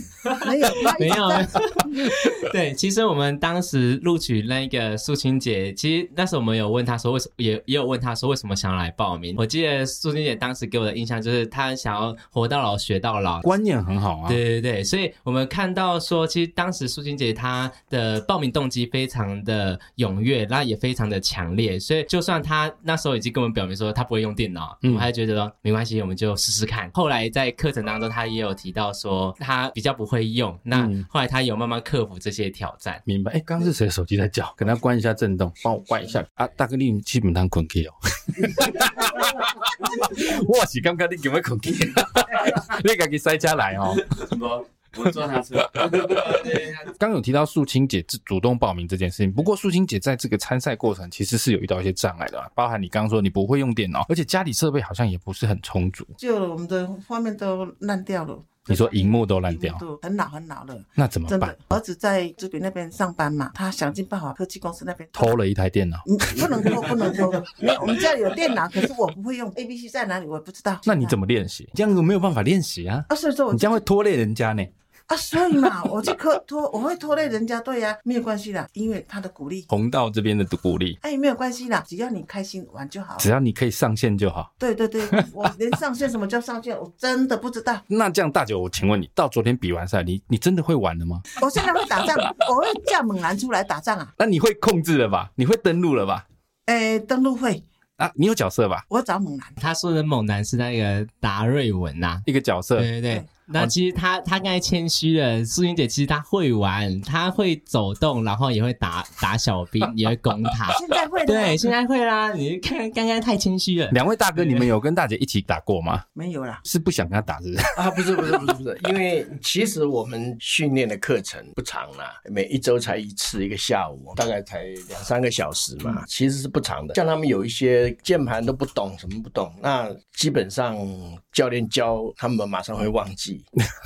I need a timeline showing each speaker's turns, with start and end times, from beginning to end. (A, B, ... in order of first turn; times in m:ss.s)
0:00.3-0:02.0 A
0:00.8-0:13.5 B
0:13.4-0:14.4 C
0:14.3-0:33.0 B
0:30.7-0:31.0 C
0:33.1-0:44.2 C
0:44.1-0:46.8 D
0:45.8-0:56.1 C
0:56.2-1:05.4 A
0:58.7-0:59.8 C
1:01.0-1:01.6 C
1:05.2-1:07.1 C
1:06.0-1:11.2 A
1:10.8-1:14.7 C
1:13.1-1:13.8 A
1:15.1-1:19.7 A
1:19.7-1:21.0 C
1:21.0-1:23.3 A
1:23.2-1:24.5 C
1:24.6-1:27.8 A
1:27.9-1:31.3 C
1:31.4-1:34.1 A
1:34.2-1:36.2 C
1:36.7-1:37.6 A
1:38.0-1:38.9 C
1:38.9-1:39.6 A
1:39.6-1:42.2 B
1:42.3-1:42.9 C
1:42.8-1:54.0 B
1:50.7-1:51.6 A
1:53.9-1:56.1 C
1:56.1-1:56.6 A
1:56.7-1:58.5 C
1:57.8-2:13.5 E